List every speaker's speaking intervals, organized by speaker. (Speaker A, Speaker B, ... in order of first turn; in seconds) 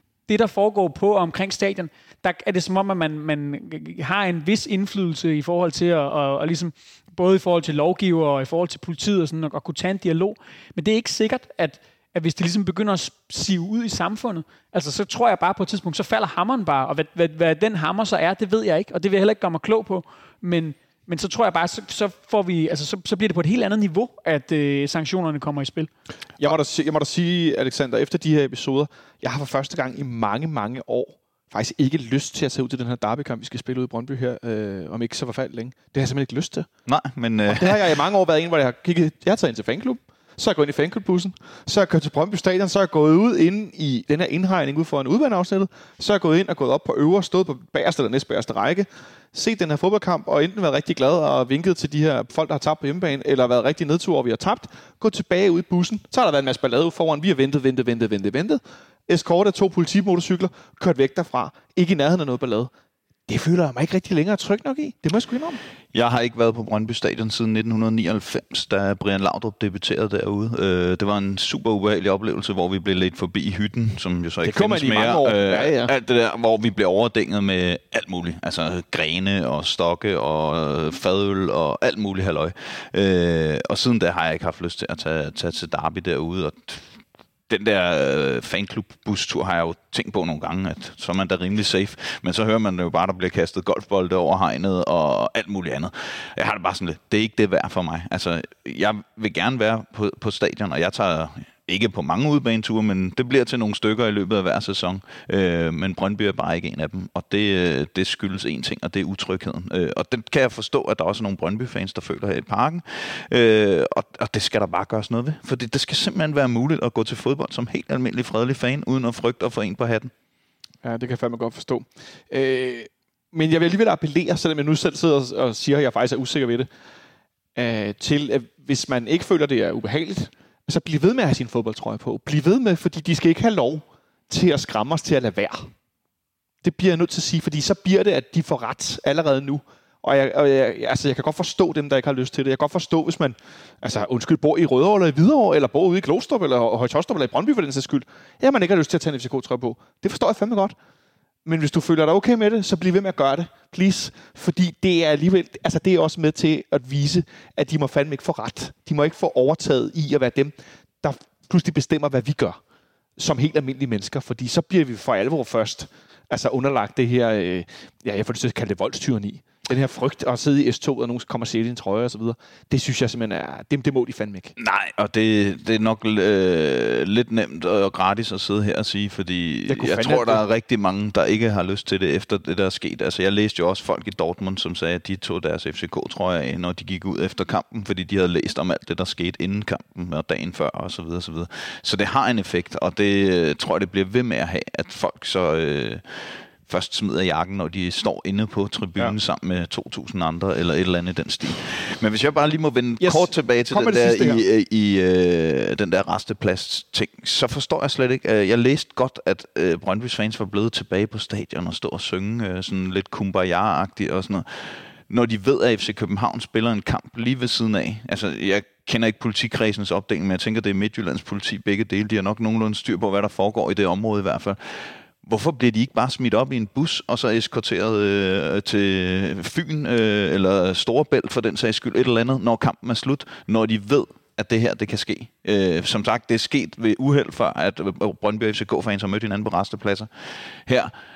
Speaker A: 0.3-25.9
Speaker B: 26.4-36.7, 37.5-62.7, 63.3-65.6, 74.4-75.9, 120.8-126.7, 127.5-135.7, 136.6-150.8, 151.4-162.6, 163.2-174.6, 179.7-180.4, 203.0-204.4
Speaker C: 36.9-37.9, 65.9-86.9, 87.5-120.1, 174.6-224.6, 225.2-240.9